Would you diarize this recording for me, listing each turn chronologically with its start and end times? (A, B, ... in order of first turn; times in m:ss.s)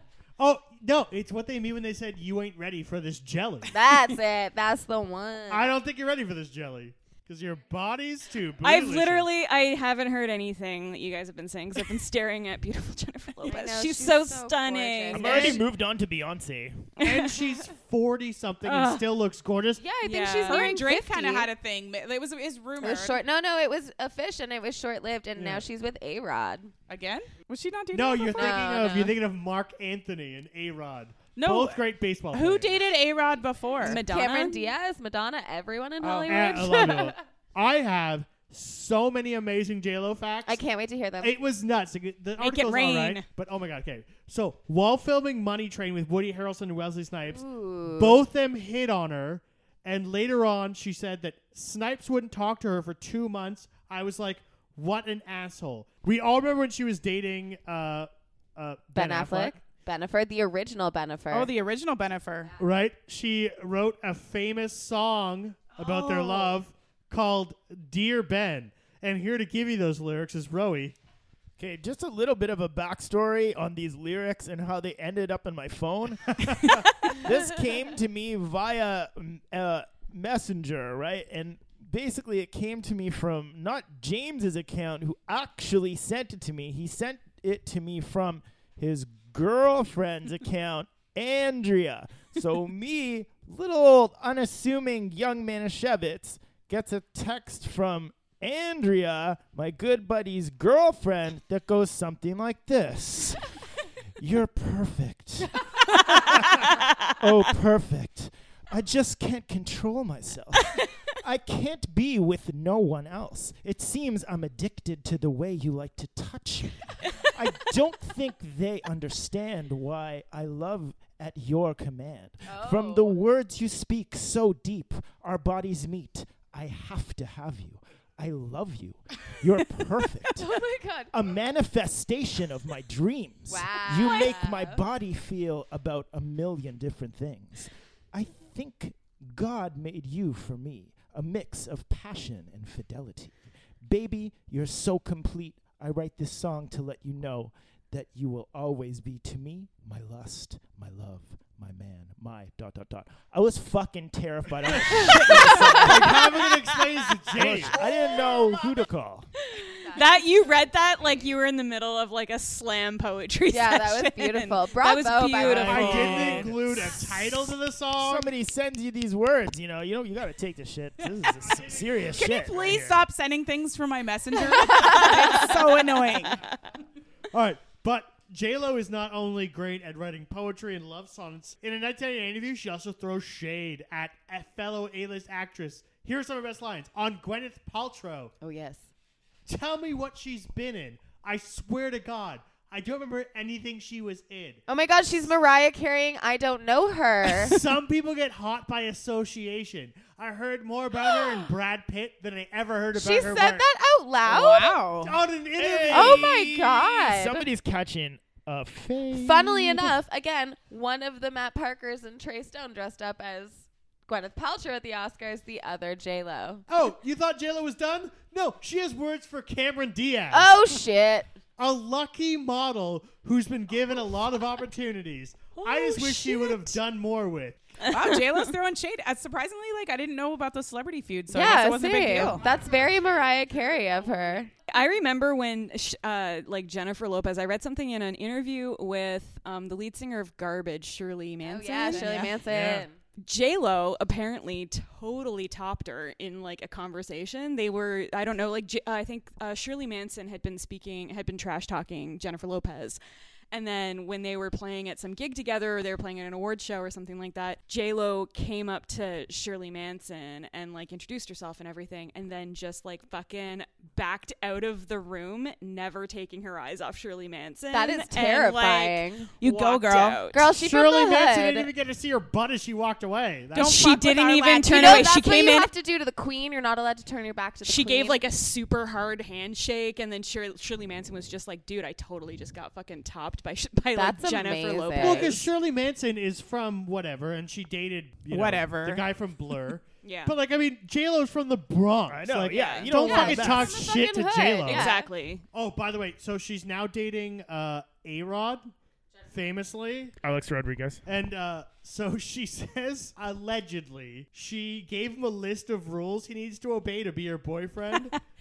0:00.4-0:03.7 A
0:03.7-0:05.7 B
0:05.5-0:09.3 A
0:08.6-0:15.5 C
0:13.4-0:15.6 B
0:15.1-0:16.9 D
0:15.1-0:15.6 A
0:17.0-0:17.3 C
0:17.0-0:19.8 A
0:18.6-0:19.1 C
0:19.8-0:21.5 B
0:20.0-0:20.7 C
0:20.4-0:23.2 E
0:22.8-0:26.7 B
0:25.4-0:25.6 A
0:26.9-0:28.7 E
0:27.9-0:32.8 A
0:28.3-0:29.2 B
0:31.3-0:34.0 E
0:33.8-0:34.7 C
0:33.8-0:37.2 B
0:36.0-0:36.6 E
0:36.3-0:40.6 A
0:40.4-0:41.4 B
0:41.2-0:59.6 A
0:42.4-0:43.2 C
0:47.3-0:48.2 B
0:58.9-1:01.5 B
1:01.3-1:02.5 E
1:02.6-1:11.0 A
1:05.8-1:06.5 E
1:11.6-1:43.5 D
1:16.4-1:16.7 A
1:44.2-2:36.4 D
2:02.4-2:03.2 B
2:10.3-2:11.1 B
2:13.5-2:14.8 B
2:35.1-2:35.8 C
2:35.5-2:37.8 A
2:37.3-2:39.3 D
2:37.8-2:38.7 B
2:39.6-2:40.6 B
2:39.6-2:46.4 C
2:43.5-2:46.5 B
2:45.4-2:48.3 A
2:45.4-2:53.0 D
2:51.6-2:51.9 A
2:52.1-2:56.4 E
2:54.7-2:55.1 B
2:56.2-2:56.5 C
2:57.3-3:08.3 A
3:08.4-3:08.9 B
3:09.4-3:14.6 A
3:14.7-3:17.6 B
3:17.4-3:23.6 A
3:21.0-3:21.4 B
3:22.9-3:24.9 B
3:24.2-3:25.2 E
3:25.0-3:26.3 A
3:25.5-3:29.9 D
3:25.9-3:27.4 B
3:29.1-3:36.7 B
3:36.7-3:40.5 A
3:40.3-3:41.4 B
3:41.6-3:47.6 A
3:45.6-3:46.5 C
3:45.9-3:46.7 B
3:47.8-3:48.5 C
3:47.9-3:52.4 E
3:51.3-3:54.5 B
3:54.7-4:02.3 C
4:01.4-4:03.0 B
4:01.9-4:02.3 E
4:02.4-4:02.9 A
4:03.2-4:13.0 C
4:13.5-4:30.4 C
4:27.7-4:29.3 B
4:29.4-4:30.2 E
4:30.3-4:31.7 B
4:30.5-4:33.8 A
4:33.5-4:35.1 E
4:33.5-4:35.7 C
4:34.7-4:38.2 B
4:37.6-4:45.5 C
4:43.9-4:45.4 B
4:45.0-4:54.9 A
4:48.3-4:49.0 E
4:50.0-4:50.4 C
4:52.1-4:53.8 D
4:52.5-4:52.9 C
4:52.9-4:55.1 B
4:54.6-4:55.4 C
4:55.5-4:58.7 A
4:59.3-5:00.2 A
5:00.2-5:01.0 D
5:01.0-5:08.2 A